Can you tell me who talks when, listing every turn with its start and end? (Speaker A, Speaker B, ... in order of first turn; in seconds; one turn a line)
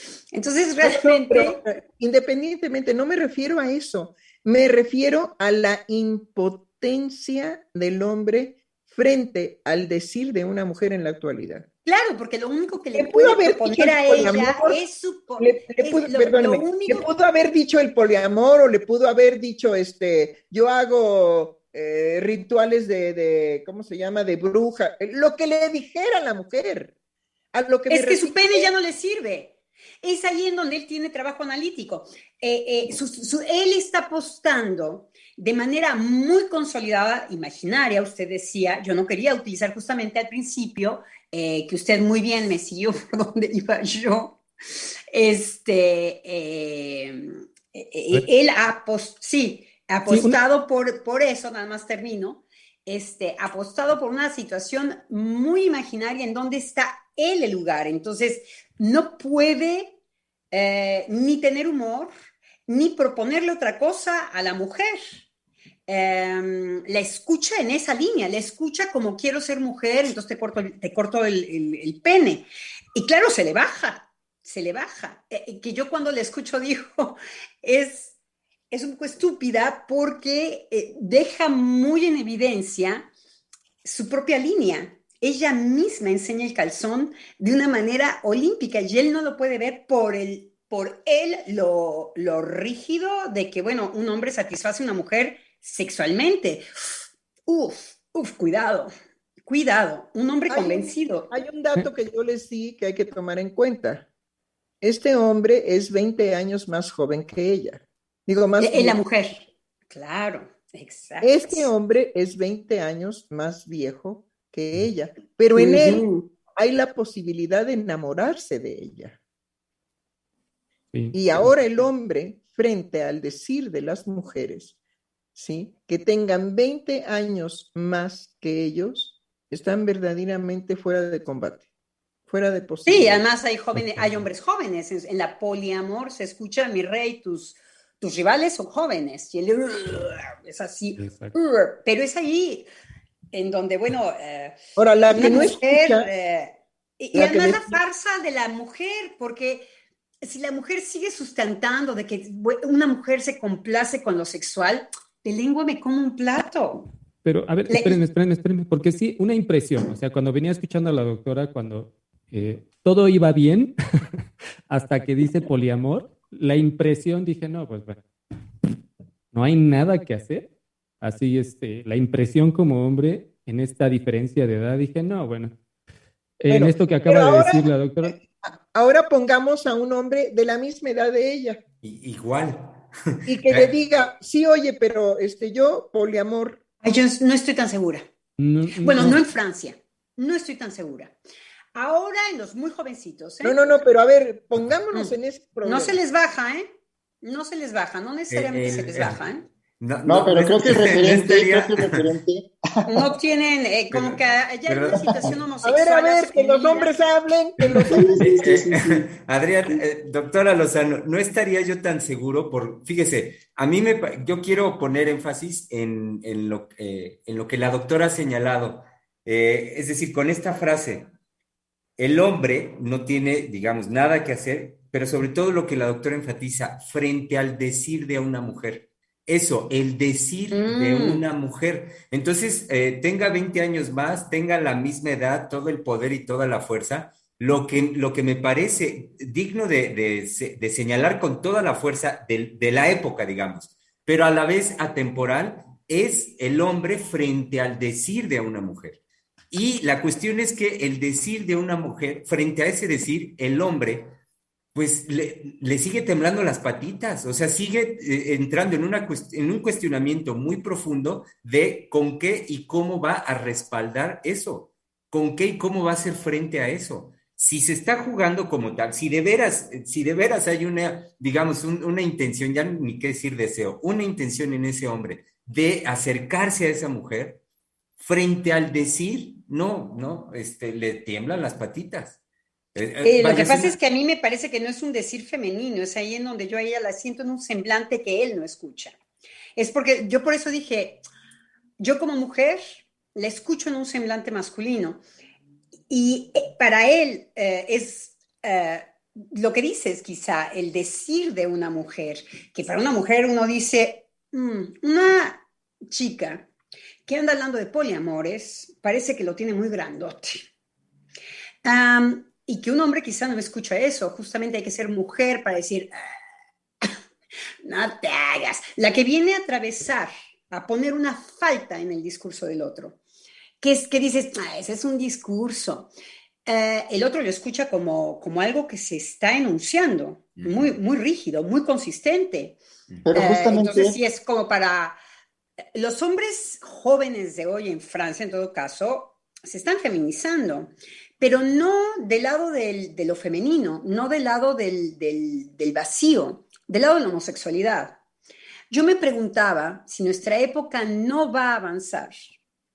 Speaker A: 0.3-1.6
Speaker B: 0.8-11.6
Speaker A: 11.8-17.1
Speaker B: 12.9-14.8
Speaker B: 15.4-26.9
Speaker B: 27.5-28.7
Speaker A: 27.9-59.9
Speaker C: 50.1-50.4
Speaker A: 60.5-62.1
Speaker A: 62.7-65.2
Speaker A: 65.9-78.1
Speaker A: 78.7-83.1
Speaker A: 83.8-98.9
Speaker A: 99.5-101.3
Speaker B: 100.5-104.0
Speaker B: 104.8-109.0
Speaker A: 108.6-111.7
Speaker B: 111.2-116.0
Speaker A: 115.5-116.2
Speaker B: 116.5-119.2
Speaker C: 120.9-121.5
Speaker B: 121.1-124.7
Speaker B: 125.3-131.6
Speaker B: 132.3-133.2
Speaker A: 132.9-142.7
Speaker C: 133.8-134.2
Speaker C: 141.0-141.3
Speaker A: 143.3-144.6
Speaker B: 144.8-146.1
Speaker A: 145.1-149.7
Speaker B: 147.1-147.8
Speaker A: 150.2-156.9
Speaker C: 157.2-163.7
Speaker A: 157.7-158.0
Speaker C: 164.7-168.0
Speaker C: 169.3-170.5
Speaker C: 171.0-175.6
Speaker C: 176.4-178.2
Speaker B: 176.5-181.6
Speaker D: 181.8-183.7
Speaker B: 183.3-186.6
Speaker A: 186.8-188.1
Speaker C: 188.4-189.2
Speaker A: 188.8-191.1
Speaker A: 191.7-193.6
Speaker B: 193.4-196.0
Speaker A: 194.9-196.7
Speaker A: 197.2-199.4
Speaker D: 198.3-199.2
Speaker D: 199.8-202.1
Speaker E: 200.1-203.1
Speaker A: 202.9-207.1
Speaker D: 203.9-205.4
Speaker B: 205.6-208.4
Speaker E: 207.9-209.0
Speaker D: 208.3-221.1
Speaker D: 222.0-249.0
Speaker A: 230.5-231.2
Speaker D: 249.5-254.1
Speaker D: 254.7-277.4
Speaker D: 278.0-282.2
Speaker D: 282.7-283.7
Speaker A: 283.0-288.9
Speaker A: 289.6-291.0
Speaker A: 291.8-295.0
Speaker A: 295.9-306.5
Speaker A: 307.1-310.5
Speaker A: 311.6-316.0
Speaker A: 317.6-323.0
Speaker A: 323.6-325.9
Speaker A: 326.4-332.6
Speaker D: 330.4-330.7
Speaker E: 333.1-334.0
Speaker A: 333.1-335.0
Speaker A: 335.7-348.0
Speaker A: 348.7-352.1